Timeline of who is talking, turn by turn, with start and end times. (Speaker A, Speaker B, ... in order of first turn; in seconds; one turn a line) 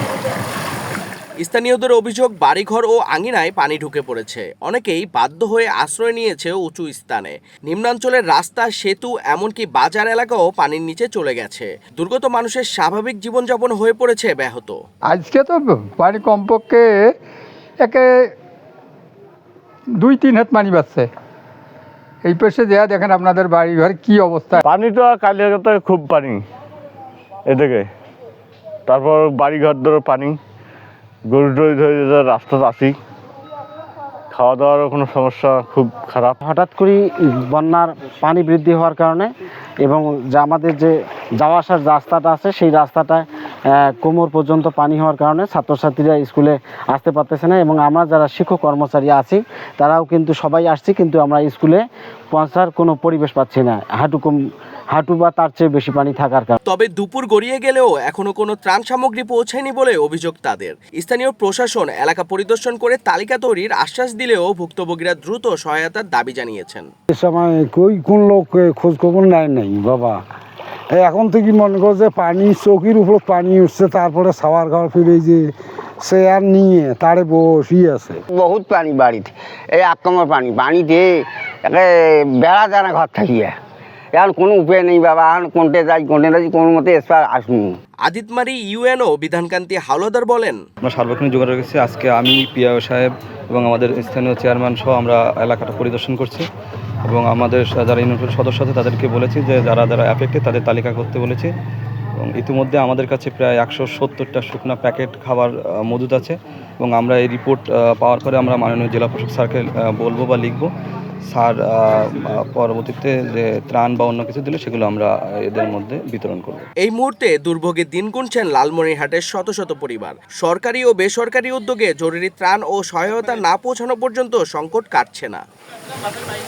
Speaker A: 1.4-14.8
Speaker B: 15.1-17.0
Speaker B: 20.0-21.1
Speaker B: 22.2-24.6
Speaker C: 24.6-26.4
Speaker C: 27.5-27.9
Speaker C: 28.9-30.4
Speaker C: 31.3-32.9
Speaker C: 34.3-36.4
Speaker D: 36.4-39.3
Speaker D: 39.8-54.4
Speaker D: 54.9-56.5
Speaker A: 56.6-66.9
Speaker E: 67.1-70.2
Speaker E: 70.9-75.5
Speaker E: 76.0-78.2
Speaker F: 78.3-83.5
Speaker F: 84.1-87.8
Speaker A: 88.1-90.6
Speaker G: 90.8-96.5
Speaker G: 97.0-101.5
Speaker G: 102.2-110.7
Speaker G: 111.3-116.7
Speaker A: 116.8-125.4